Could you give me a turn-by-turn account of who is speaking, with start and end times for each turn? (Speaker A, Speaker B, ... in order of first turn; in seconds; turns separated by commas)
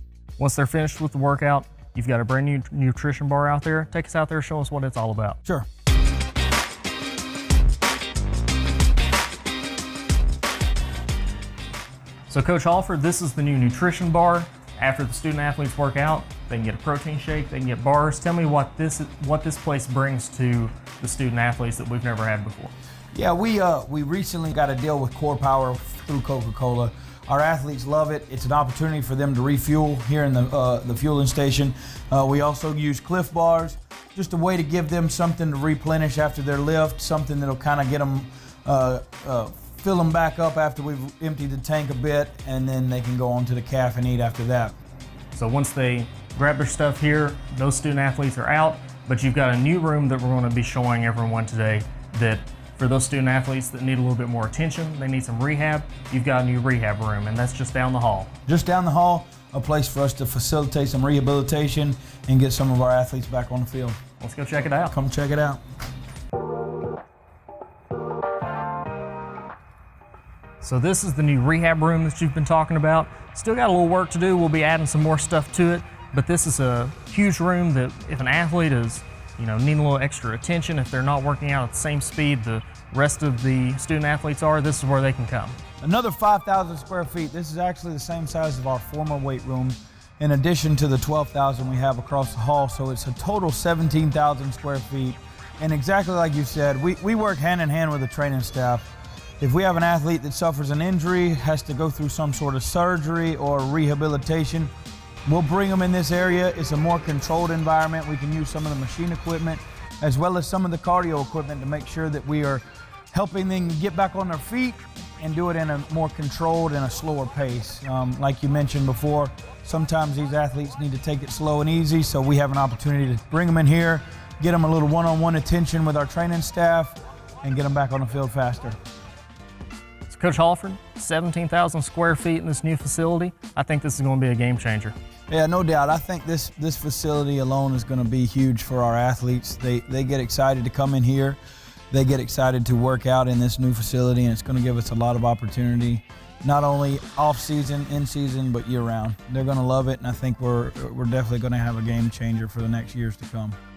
Speaker A: 0.4-5.4, Speaker A: 12.3-22.7, Speaker B: 23.1-44.8, Speaker A: 45.3-58.3, Speaker B: 58.5-64.0, Speaker A: 64.2-64.9, Speaker B: 64.9-65.6, Speaker A: 70.6-85.6, Speaker B: 85.8-98.9, Speaker B: 99.4-104.7, Speaker B: 105.2-128.8, Speaker A: 130.1-134.9, Speaker B: 135.3-141.4, Speaker B: 141.9-153.6